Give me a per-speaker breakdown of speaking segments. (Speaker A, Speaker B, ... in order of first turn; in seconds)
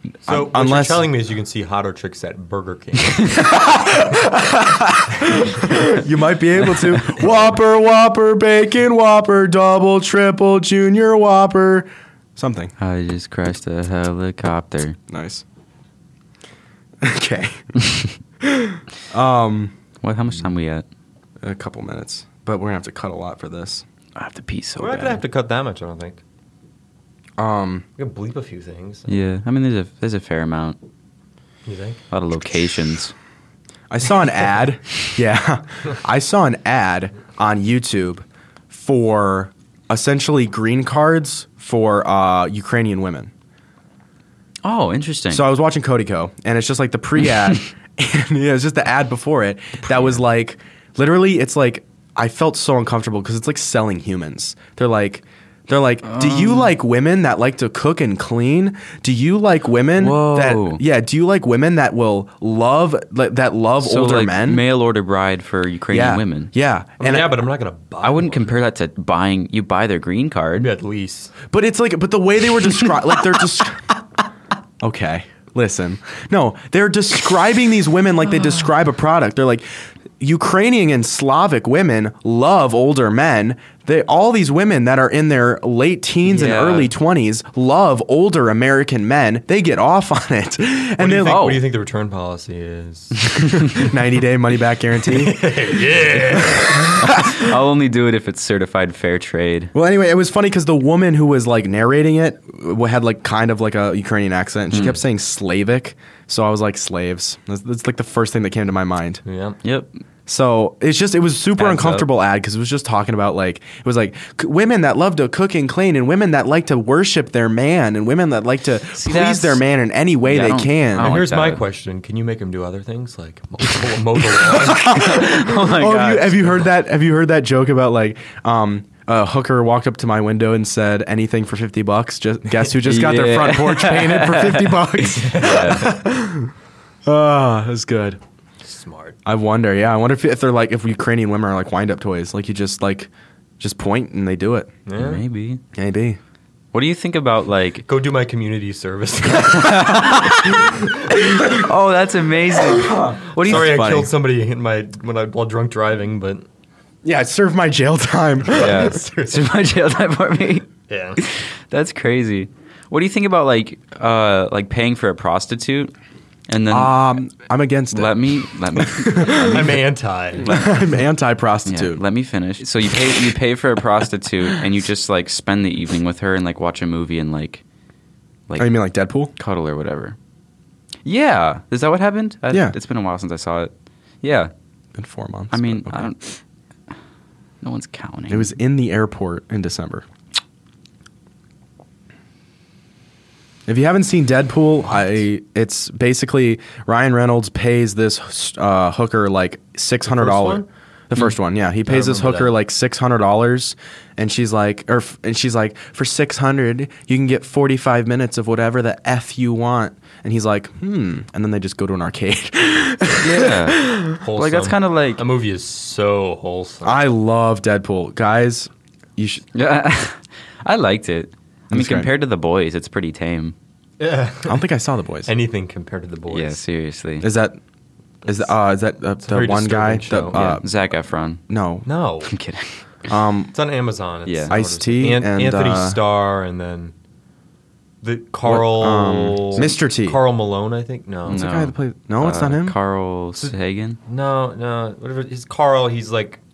Speaker A: 0.2-3.5, 24.8-26.2, 28.0-29.1, 31.6-32.0, 67.0-68.6, 70.6-71.3, 91.0-93.3, 95.0-97.3, 109.2-109.6, 111.6-112.0, 121.0-125.3, 135.1-136.0, 138.6-139.2, 144.8-145.2, 147.8-151.6, 153.4-156.4, 158.5-159.4, 160.9-161.2, 168.8-170.5, 200.1-200.7, 201.8-202.5, 214.2-217.0, 224.0-224.7, 225.2-226.6, 229.2-230.5, 231.8-232.3, 233.5-236.9, 238.0-241.4, 243.4-246.4
Speaker B: 0.3-1.1, 3.3-12.7, 15.1-15.4, 17.0-17.7, 18.4-19.7, 21.4-23.8, 27.4-27.8, 33.9-43.3, 45.3-64.6, 65.9-67.3, 71.5-73.9, 74.8-79.7, 80.2-91.5, 93.6-95.5, 96.3-97.5, 99.7-109.2, 110.3-121.2, 124.6-136.5, 137.0-138.2, 139.2-144.7, 145.7-146.2, 152.8-154.1, 157.0-158.9, 166.7-168.3, 169.1-169.6, 170.4-172.0, 178.6-179.3, 182.5-182.7, 184.9-186.1, 188.3-190.1, 193.7-214.2, 216.8-219.4, 221.7-222.1, 224.4-225.3, 227.2-227.6, 228.2-230.7, 231.5-231.8, 233.1-233.5, 234.5-236.0, 238.4-240.2, 241.3-242.8
Speaker C: 6.7-7.1, 12.8-15.0, 20.0-20.9, 24.1-25.2, 29.1-30.8, 32.1-33.1, 44.6-45.4, 56.0-56.7, 60.0-60.8, 63.8-66.5, 68.0-70.7, 86.3-86.9, 91.2-91.6, 93.3-93.8, 96.7-99.7, 104.7-105.0, 109.6-109.9, 119.0-119.6, 120.2-121.6, 124.8-126.5, 132.8-135.9, 145.0-145.6, 146.7-147.8, 149.4-153.9, 158.5-165.9, 166.5-167.0, 167.9-169.8, 170.4-170.8, 171.7-177.6, 178.5-178.7, 179.3-180.2, 181.0-183.7, 184.2-184.5, 185.5-186.4, 187.6-188.5, 213.2-215.2, 219.5-223.5, 226.3-227.3, 230.3-231.4, 232.2-232.8, 234.2-234.6, 241.3-244.0